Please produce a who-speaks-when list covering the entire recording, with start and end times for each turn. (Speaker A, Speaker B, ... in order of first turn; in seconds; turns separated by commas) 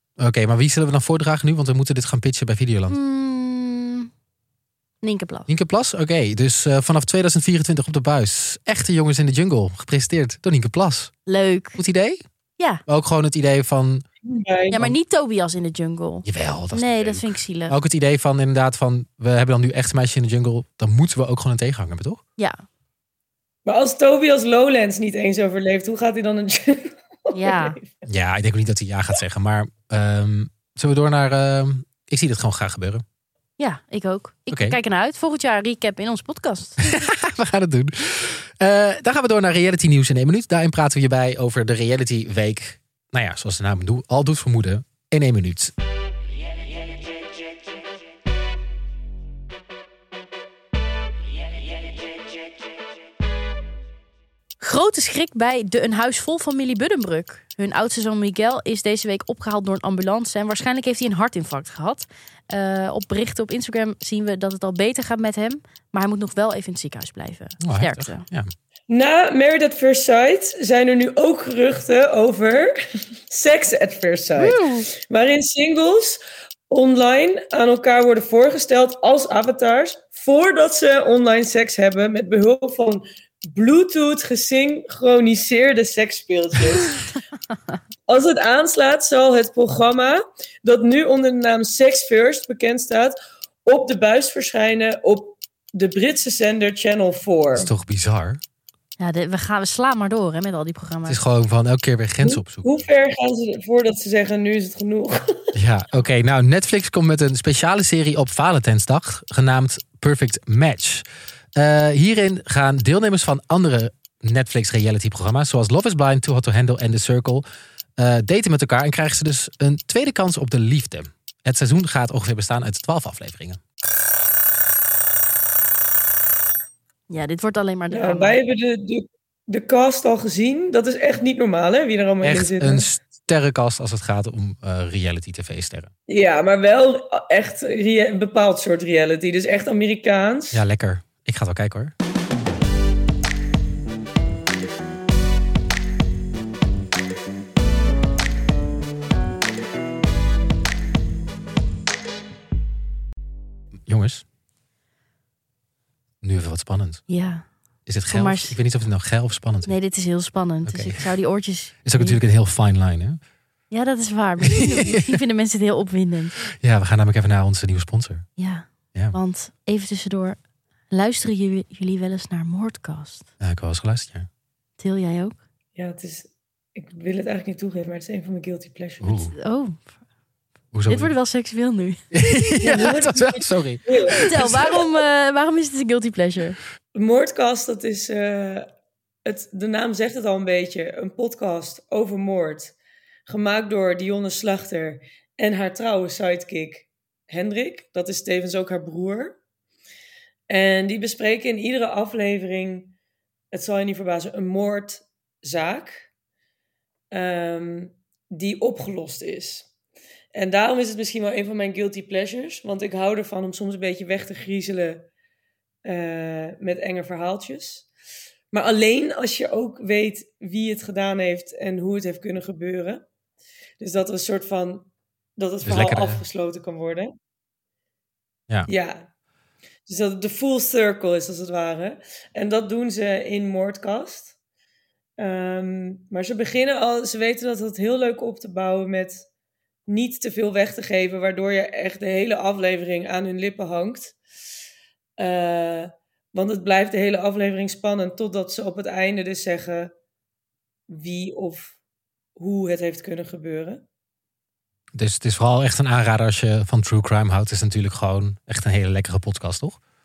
Speaker A: 0.2-3.0, Speaker B: 2.9-4.1, Speaker B: 5.0-5.5, Speaker A: 5.5-11.1, Speaker B: 11.3-11.8, Speaker A: 11.8-12.2, Speaker A: 12.8-14.0, Speaker C: 14.2-14.9, Speaker B: 14.7-17.8, Speaker A: 16.2-22.2, Speaker C: 23.6-28.0, Speaker B: 27.3-27.8, Speaker A: 28.1-33.0, Speaker B: 33.6-36.8, Speaker A: 34.5-34.8, Speaker A: 36.8-45.7, Speaker B: 54.6-68.2, Speaker A: 67.6-68.5, Speaker C: 68.9-72.8, Speaker C: 73.3-87.0, Speaker A: 74.4-74.8, Speaker C: 88.1-97.7, Speaker A: 97.5-98.4, Speaker B: 99.0-101.2, Speaker A: 101.0-102.7, Speaker C: 102.2-105.5, Speaker A: 105.5-117.4, Speaker A: 118.0-123.6, Speaker B: 127.1-128.4, Speaker C: 127.9-132.8, Speaker A: 132.2-135.9, Speaker C: 136.1-140.6, Speaker A: 140.5-141.9, Speaker A: 153.9-154.2, Speaker A: 156.2-157.0, Speaker B: 157.1-157.4, Speaker A: 157.9-159.7, Speaker B: 158.1-158.6, Speaker B: 159.7-162.2, Speaker A: 160.6-161.0, Speaker A: 161.8-163.2, Speaker B: 163.7-166.4, Speaker A: 164.4-165.1, Speaker A: 166.6-168.2, Speaker B: 168.4-170.4, Speaker B: 170.9-173.3, Speaker A: 173.4-174.3, Speaker B: 174.8-175.4, Speaker C: 175.8-179.2, Speaker A: 179.0-179.3, Speaker B: 179.3-179.8, Speaker A: 180.7-181.1, Speaker B: 180.9-182.0, Speaker A: 182.1-184.8, Speaker C: 182.6-184.6, Speaker B: 184.2-186.6, Speaker C: 186.9-188.7, Speaker C: 189.2-192.7, Speaker C: 193.3-199.4, Speaker C: 200.5-202.9, Speaker C: 203.5-206.1, Speaker C: 207.1-209.7, Speaker C: 210.3-215.1, Speaker C: 215.8-217.9, Speaker C: 218.5-223.0, Speaker C: 223.8-227.1, Speaker A: 225.6-226.2, Speaker C: 228.7-229.1, Speaker C: 229.9-234.3, Speaker C: 235.2-239.3, Speaker C: 239.9-244.2, Speaker C: 245.2-249.9, Speaker C: 250.9-251.8, Speaker C: 252.4-253.8, Speaker A: 254.9-259.8